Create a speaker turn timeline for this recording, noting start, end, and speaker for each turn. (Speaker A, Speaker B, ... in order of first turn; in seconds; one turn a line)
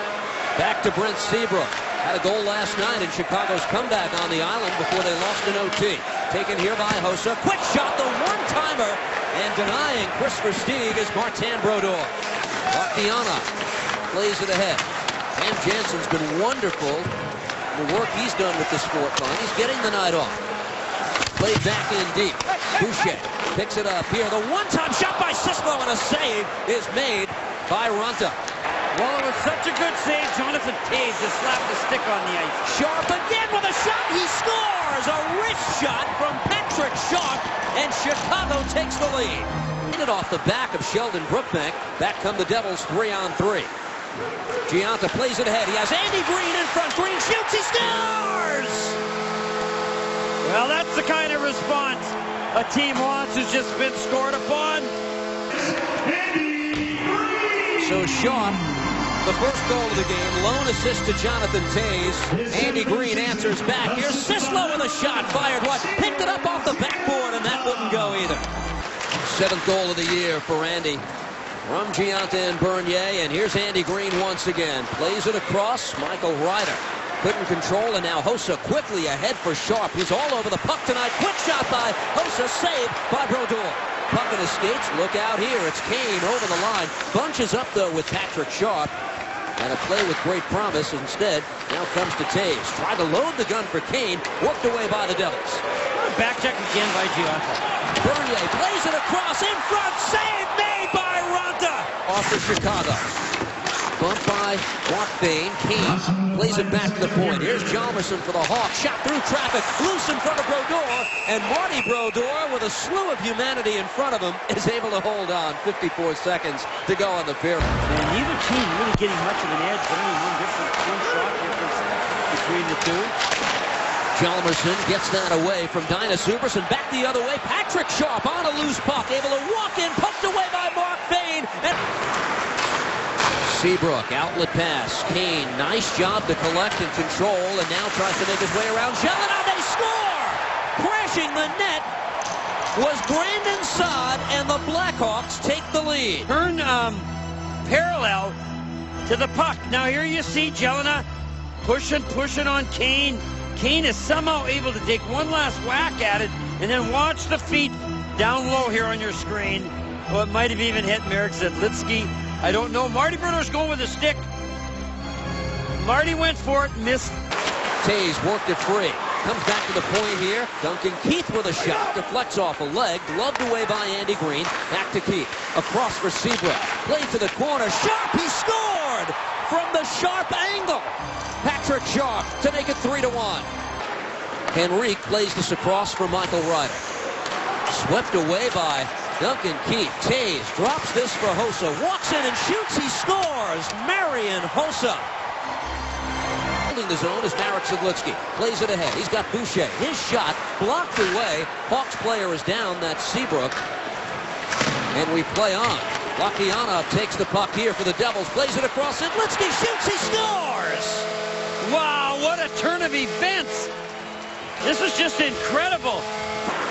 Speaker A: 0.6-12.1
Speaker A: 12.7-13.5
Speaker A: 14.1-14.8
Speaker A: 15.3-17.1
Speaker A: 17.7-20.4
Speaker A: 21.3-28.4
Speaker B: 28.9-32.6
Speaker A: 32.6-43.7
Speaker A: 44.6-49.0
Speaker B: 50.4-54.9
Speaker B: 55.9-57.8
Speaker A: 57.8-58.6
Speaker A: 59.2-68.4
Speaker A: 69.2-71.0
Speaker A: 71.6-88.9
Speaker A: 89.6-95.6
Speaker B: 96.0-97.6
Speaker A: 98.0-103.2
Speaker B: 101.4-101.8
Speaker A: 104.0-117.8
Speaker B: 117.8-123.1
Speaker A: 124.1-131.8
Speaker A: 133.4-141.9
Speaker A: 142.7-146.3
Speaker B: 146.3-147.1
Speaker B: 147.6-148.4
Speaker B: 149.0-151.0
Speaker B: 151.6-164.2
Speaker B: 165.7-167.2
Speaker A: 167.8-183.5
Speaker A: 184.5-186.8
Speaker A: 187.7-195.1
Speaker A: 196.7-203.6
Speaker A: 204.9-211.1
Speaker B: 211.6-213.7
Speaker B: 214.6-216.1